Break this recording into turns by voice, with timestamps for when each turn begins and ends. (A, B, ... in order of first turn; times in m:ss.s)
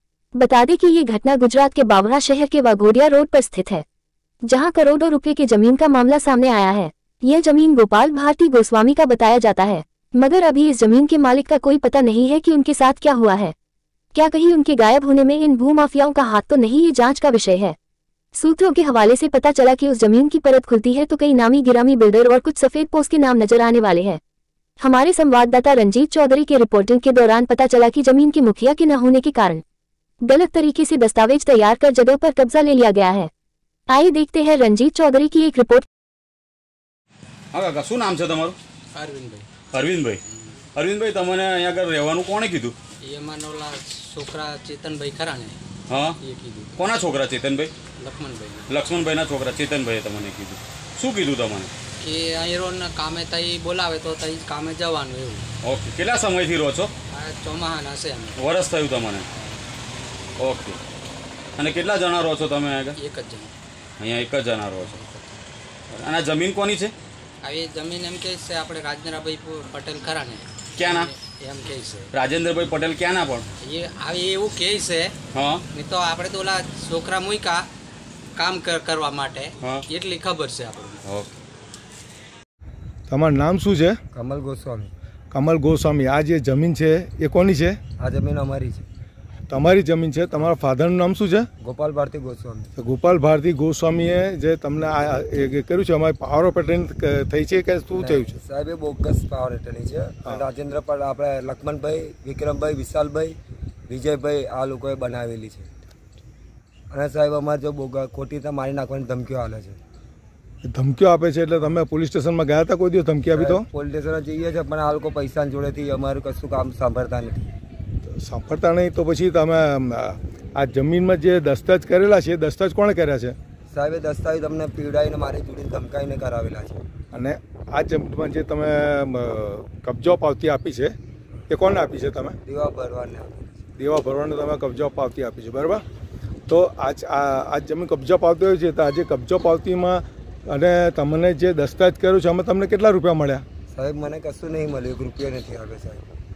0:00.3-0:03.8 A
0:04.4-0:13.5 A
0:14.1-0:17.8 A
0:18.3-0:24.2 A
0:24.8-0:29.6 A
0:30.2-0:33.3 A
0:33.9-0:35.9 A
0:37.5-0:38.6 B
0:38.9-0:39.5 C
0:39.7-0:40.2 B
0:40.7-0:42.7 B
0:43.0-0:45.6 C
0:45.9-0:46.2 B
0:46.2-0:46.8 C
0:46.8-0:47.7 B
0:48.0-0:48.7 C
0:48.7-0:51.7 B
0:52.0-0:55.5 C
0:55.6-0:56.9 B
0:57.1-0:58.4 C
0:58.4-0:59.3 B
1:00.4-1:00.8 B
1:01.6-1:03.0 B
1:03.0-1:03.5 C
1:04.0-1:05.0 B
1:04.8-1:05.4 C
1:05.9-1:06.9 B
1:07.4-1:12.1 C
1:10.8-1:11.1 B
1:12.1-1:13.4 B
1:13.6-1:15.1 C
1:15.3-1:15.6 B
1:15.7-1:17.6 C
1:18.4-1:21.0 C
1:21.0-1:21.4 B
1:23.1-1:24.0 D
1:24.1-1:24.9 E
1:25.3-1:27.8 D
1:28.0-1:28.9 E
1:29.5-1:31.5 D
1:31.6-1:32.7 E
1:32.8-1:38.4 D
1:38.0-1:43.4 E
1:43.9-1:45.7 E
1:46.9-1:49.8 E
1:50.6-1:53.6 D
1:53.3-1:57.5 E
1:58.0-2:03.4 D
2:03.7-2:06.8 E
2:07.1-2:10.9 D
2:11.5-2:12.4 D
2:12.4-2:13.7 E
2:13.8-2:15.8 D
2:16.5-2:23.4 D
2:23.7-2:26.1 E